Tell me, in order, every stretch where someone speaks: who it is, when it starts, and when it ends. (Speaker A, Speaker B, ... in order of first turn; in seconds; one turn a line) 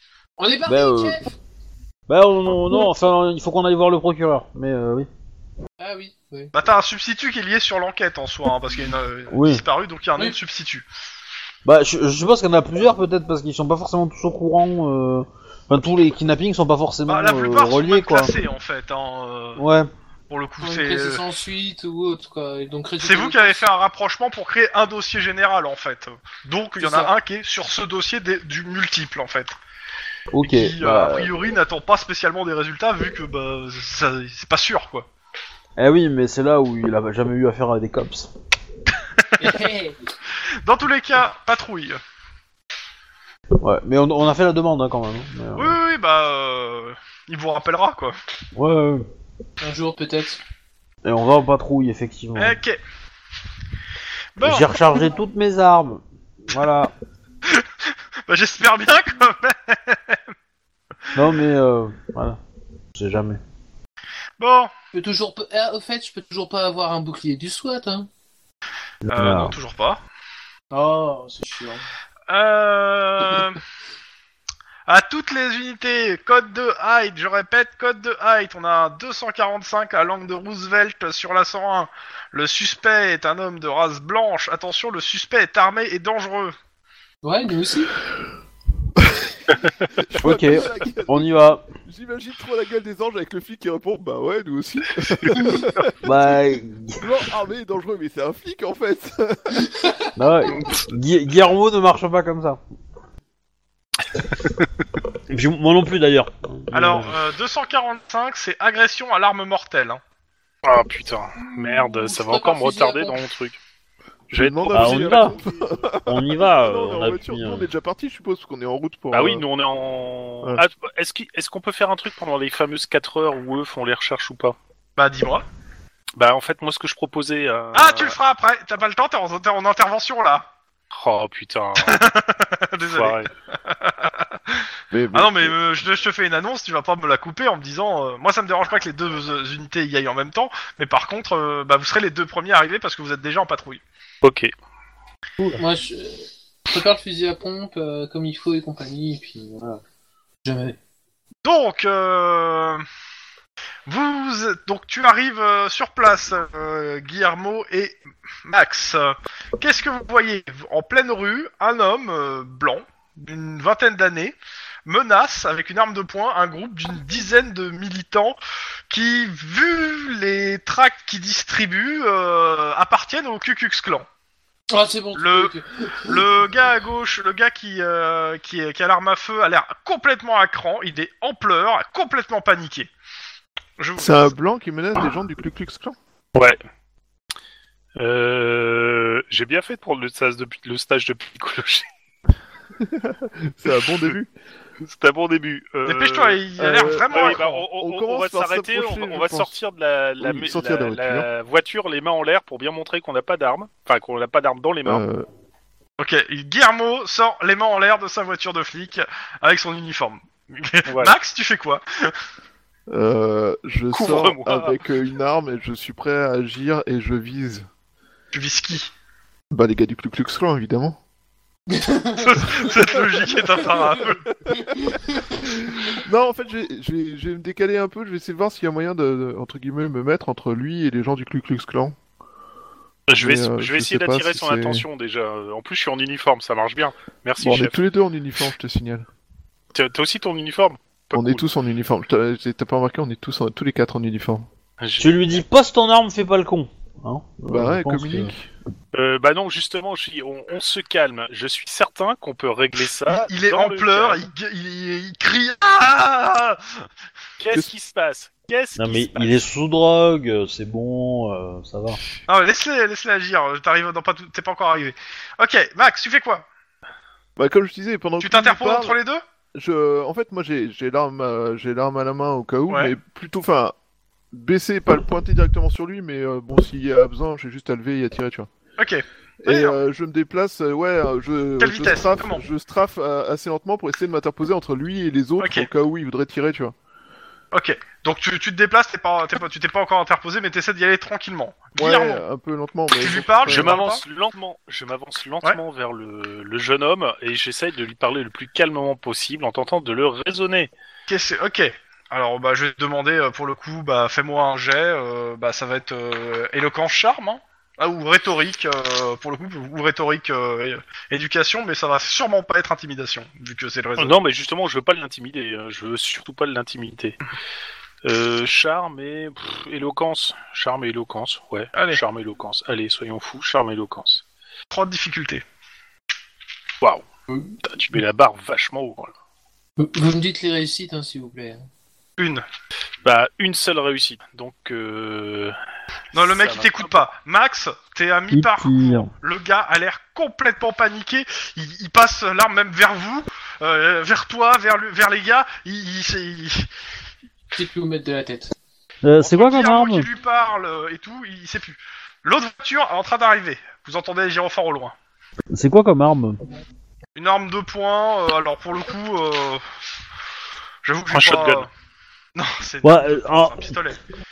Speaker A: 0.4-1.3
Speaker B: 0.7-1.2
Speaker B: 2.1-5.1
Speaker A: 5.8-6.5
Speaker C: 6.5-10.8
Speaker B: 9.3-9.6
Speaker B: 11.7-18.3
Speaker C: 17.1-19.6
Speaker B: 19.6-19.9
Speaker C: 20.3-21.2
Speaker A: 20.6-23.7
Speaker C: 23.0-29.6
Speaker A: 26.8-27.1
Speaker B: 30.3-31.3
Speaker C: 30.4-35.1
Speaker B: 35.8-38.3
Speaker C: 39.2-39.6
Speaker A: 39.4-40.0
Speaker C: 40.6-42.0
Speaker B: 43.6-45.8
Speaker C: 45.6-48.2
Speaker B: 48.5-49.1
Speaker A: 49.6-50.4
Speaker B: 51.0-52.5
Speaker C: 52.4-52.8
Speaker C: 54.4-55.0
Speaker B: 54.4-56.9
Speaker C: 58.3-60.2
Speaker B: 61.1-62.4
Speaker B: 63.0-63.4
Speaker C: 64.4-64.7
Speaker A: 64.9-68.1
Speaker B: 69.0-69.5
Speaker C: 69.1-70.0
Speaker A: 70.7-71.9
Speaker C: 72.3-73.6
Speaker C: 74.9-86.5
Speaker A: 87.2-87.9
Speaker D: 89.9-95.9
Speaker B: 90.2-91.7
Speaker B: 96.0-97.0
Speaker D: 97.0-99.6
Speaker B: 100.2-102.6
Speaker B: 105.3-107.2
Speaker C: 106.7-110.0
Speaker E: 110.6-113.6
Speaker A: 111.4-113.2
Speaker D: 114.3-119.5
Speaker E: 114.3-115.8
Speaker B: 114.7-115.4
Speaker B: 116.1-117.7
Speaker E: 119.1-124.6
Speaker C: 125.0-125.5
Speaker E: 126.2-128.2
Speaker C: 127.8-130.5
Speaker E: 130.9-132.0
Speaker C: 131.8-143.8
Speaker E: 132.9-133.3
Speaker D: 134.9-135.6
Speaker E: 144.2-144.5
Speaker A: 145.6-149.8
Speaker A: 150.4-150.8
Speaker C: 151.4-152.8
Speaker C: 153.9-164.3
Speaker C: 164.9-168.4
Speaker C: 168.9-174.1
Speaker A: 174.7-176.2
Speaker C: 175.2-182.9
Speaker C: 183.8-184.3
Speaker D: 184.0-186.0
Speaker E: 188.0-191.9
Speaker D: 192.8-194.3
Speaker E: 194.8-196.4
Speaker C: 195.8-197.7
Speaker D: 196.6-199.5
Speaker E: 197.1-205.1
Speaker D: 200.2-201.3
Speaker D: 204.8-205.3
Speaker C: 206.0-212.1
Speaker E: 210.9-211.2
Speaker D: 212.9-217.7
Speaker E: 213.9-214.8
Speaker C: 218.3-218.9
Speaker D: 219.5-221.0
Speaker A: 221.7-223.8
Speaker C: 222.2-224.2
Speaker A: 224.5-225.4
Speaker D: 225.4-232.0
Speaker E: 233.1-237.8
Speaker D: 233.2-234.9
Speaker D: 237.4-239.1
Speaker E: 239.7-241.4
Speaker D: 241.1-244.5
Speaker E: 244.8-245.1
Speaker B: 245.0-248.3
Speaker D: 247.5-248.5
Speaker E: 248.9-254.3
Speaker C: 253.1-256.8
Speaker E: 257.4-259.4
Speaker B: 258.8-262.0
Speaker C: 262.3-266.5
Speaker D: 267.4-269.0
Speaker C: 268.2-269.2
Speaker D: 269.6-273.7
Speaker C: 272.7-272.9
Speaker D: 274.3-278.5
Speaker C: 278.8-279.8
Speaker D: 279.4-286.8
Speaker C: 281.6-282.5
Speaker C: 285.4-285.7
Speaker C: 287.5-292.2
Speaker D: 291.8-293.8
Speaker C: 292.9-294.0
Speaker E: 293.4-300.7
Speaker C: 301.1-314.2
Speaker E: 314.0-317.2
Speaker E: 318.0-324.2
Speaker C: 321.8-322.0
Speaker C: 324.7-325.4
Speaker E: 327.6-329.1
Speaker A: 329.8-331.7
Speaker C: 332.2-332.4
Speaker E: 333.1-335.6
Speaker C: 336.1-346.7
Speaker E: 336.1-337.1
Speaker B: 338.3-339.1
Speaker A: 347.6-348.6
Speaker B: 349.0-350.1
Speaker C: 349.2-354.9
Speaker B: 355.5-356.4
Speaker C: 357.2-359.7
Speaker C: 360.9-361.7
Speaker E: 361.1-361.7
Speaker C: 362.4-364.0
Speaker B: 362.8-363.8